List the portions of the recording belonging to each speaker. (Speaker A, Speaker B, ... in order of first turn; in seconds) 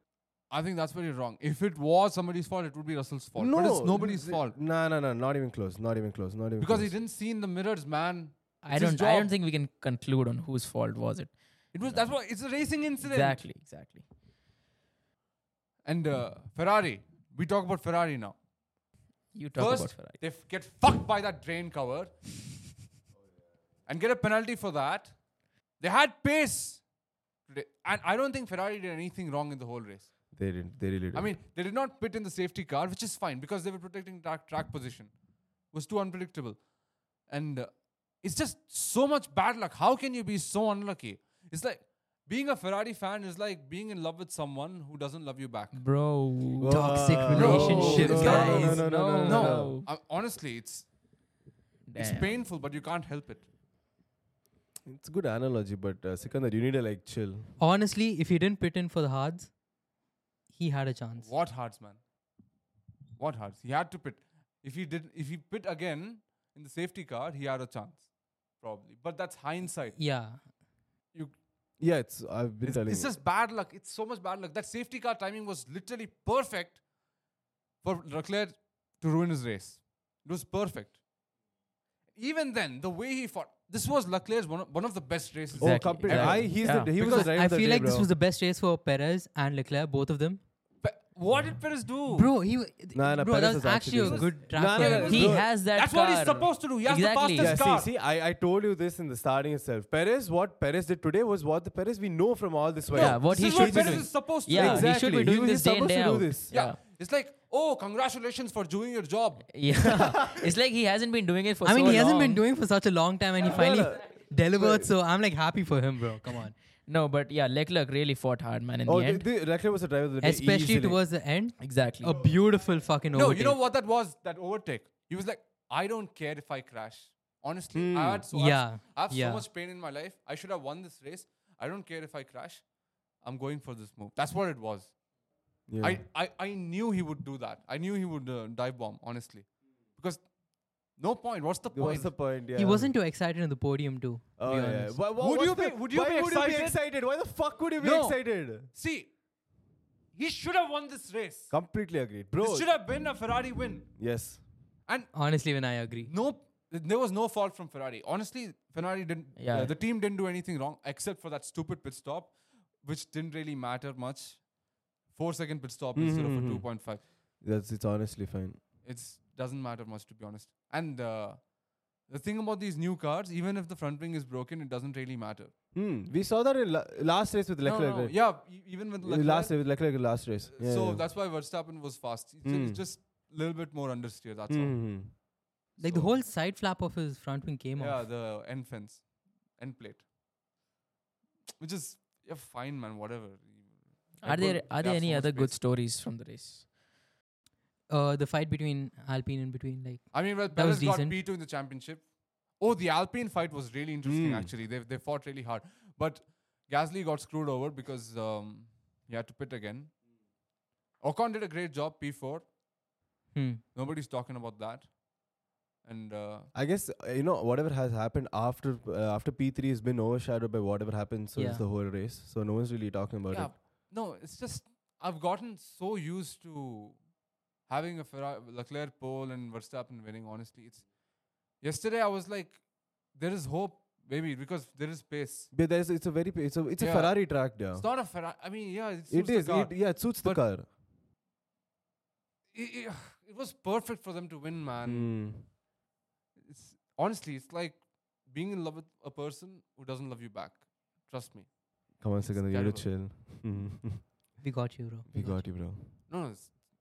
Speaker A: 0.5-4.5, 6.6-9.3, 11.7-13.4, 15.8-18.4, 19.6-22.1, 23.9-25.1, 25.8-26.8, 27.5-30.1, 31.1-35.1, 35.7-36.6, 37.3-45.8, 47.3-50.9, 52.0-53.5, 61.2-62.0, 63.2-68.1, 68.6-70.0, 72.6-76.8, 77.8-81.0, 82.2-87.3, 90.8-92.3, 94.0-97.9, 102.9-104.9, 106.5-109.5, 123.1-132.6, 133.2-134.9, 135.8-140.2, 140.9-142.1, 145.2-146.8, 147.8-149.1, 150.1-151.5, 152.4-153.9, 156.1-164.5, 165.1-167.0, 168.8-171.4, 172.1-175.5, 177.7-184.9, 185.8-186.2, 187.8-189.1, 189.6-190.1, 191.6-195.6, 200.1-209.9, 211.0-212.5, 213.7-214.9, 215.8-216.5, 223.3-227.0, 227.7-230.9, 231.6-235.5, 236.8-240.4, 242.5-245.2, 246.4-251.5, 252.3-252.9, 256.1-256.6
Speaker B: 3.4-6.9, 30.3-31.3, 46.6-49.8, 54.9-57.5, 71.8-73.2, 85.6-88.1, 92.9-95.5, 97.3-106.5, 109.9-110.5, 113.4-114.9, 118.8-121.0, 127.7-128.3, 135.7-136.0, 141.7-142.9, 144.4-148.7, 151.5-152.7, 154.0-154.4, 165.9-166.7, 167.4-168.6, 175.7-178.4, 179.0-181.0, 182.4-182.8, 184.5-185.1, 204.0-204.5, 216.5-223.5, 235.5-237.8, 239.1-240.7, 244.8-245.5, 252.0-254.1, 255.1-255.9
Speaker C: 8.6-12.0, 13.0-14.0, 19.3-20.2, 45.7-49.9, 51.9-52.3, 85.6-86.9, 94.8-97.6, 102.9-106.8, 109.5-112.4, 116.9-119.2, 121.6-122.3, 159.4-159.7, 194.2-196.7
Speaker D: 46.7-48.9, 57.6-59.5, 60.5-61.3, 70.0-70.5, 87.0-90.4, 92.1-95.3, 111.6-116.5, 120.2-123.6, 128.3-129.4, 142.6-145.0, 155.1-156.1, 185.8-188.0, 197.9-201.2, 213.3-213.6, 221.3-221.6, 254.4-255.4